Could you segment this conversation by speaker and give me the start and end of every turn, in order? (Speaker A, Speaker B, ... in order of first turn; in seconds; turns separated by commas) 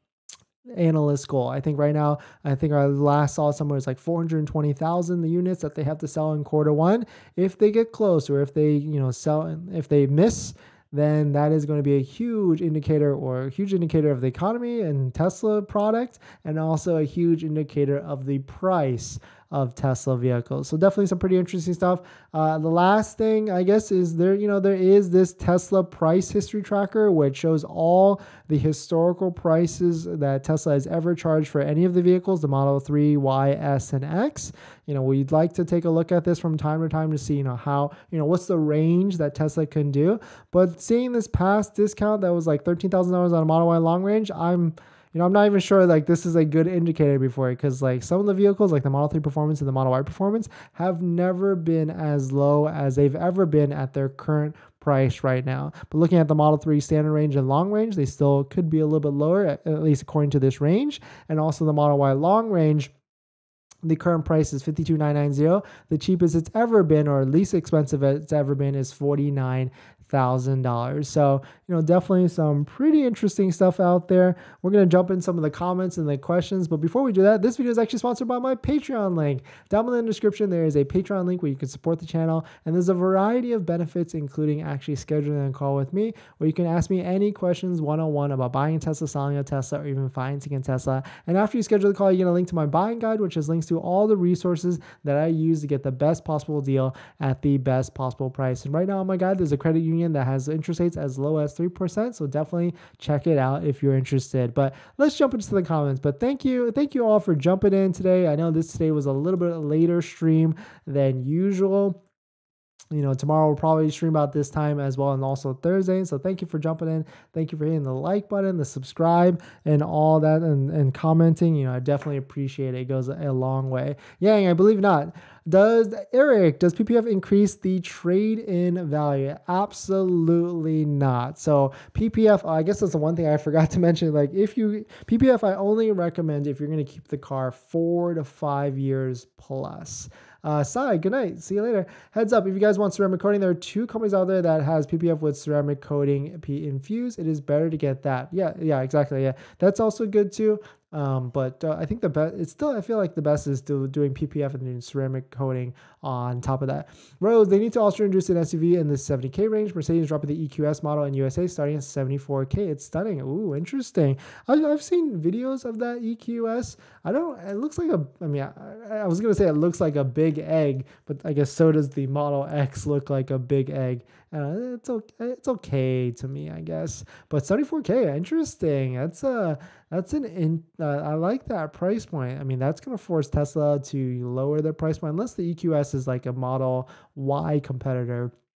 Speaker A: 0.7-62.9, Speaker A: 63.8-112.0, Speaker A: 112.9-188.3